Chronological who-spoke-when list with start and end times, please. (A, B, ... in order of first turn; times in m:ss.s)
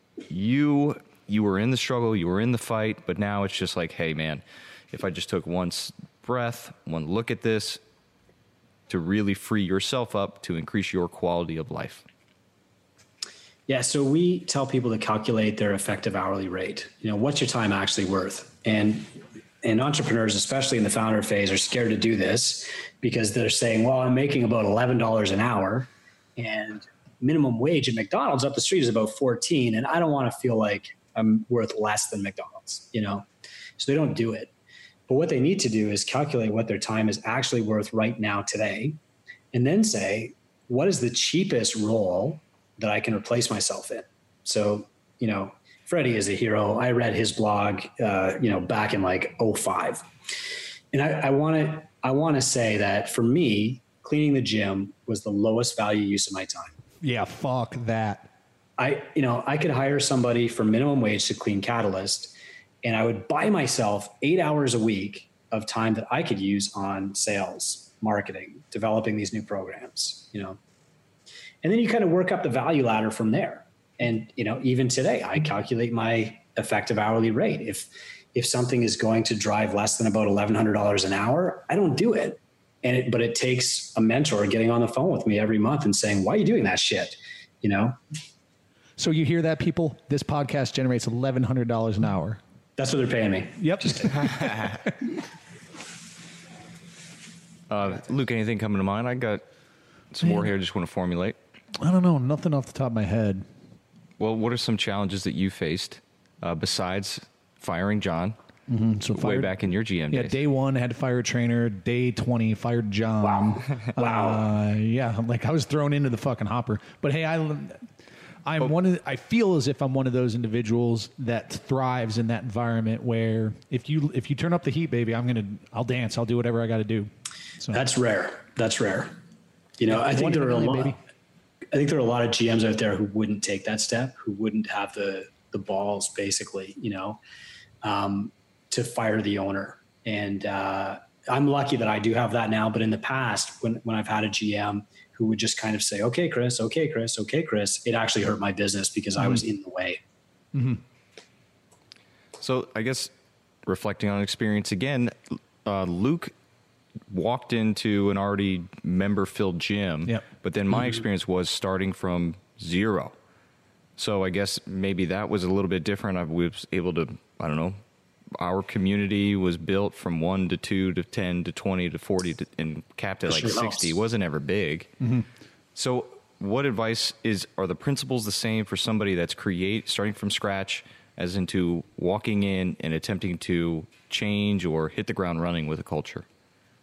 0:00.3-0:07.8 A
0:08.9-0:12.1 A
0:13.7-0:19.1 B
0:19.6-0:33.3 B
0:33.8-0:34.5 B
0:35.1-0:39.0 B
0:39.5-0:50.1 B
0:50.9-0:56.7 B
0:57.0-0:58.3 C
0:58.8-1:10.6 B
1:11.6-1:28.0 B
1:29.0-1:32.4 C
1:32.8-1:34.2 B
1:33.6-1:34.7 C
1:37.7-1:39.4 A
1:40.1-1:41.4 A
1:41.8-1:43.4 C
1:44.2-1:48.4 A
1:48.7-1:49.5 C
1:49.1-1:50.4 A
1:50.1-1:57.8 C
1:53.2-1:54.4 B
1:58.4-2:07.8 C
2:07.7-2:09.2 B
2:09.8-2:11.0 B
2:09.9-2:11.0 C
2:11.7-2:17.2 B
2:17.8-2:30.0 B
2:30.5-2:30.8 C
2:32.4-2:33.1 A
2:33.6-2:36.3 A
2:37.1-2:43.2 A
2:44.0-2:47.8 A
2:48.4-2:54.9 A
2:53.3-2:53.9 B
2:55.0-2:55.3 C
2:55.7-3:06.3 A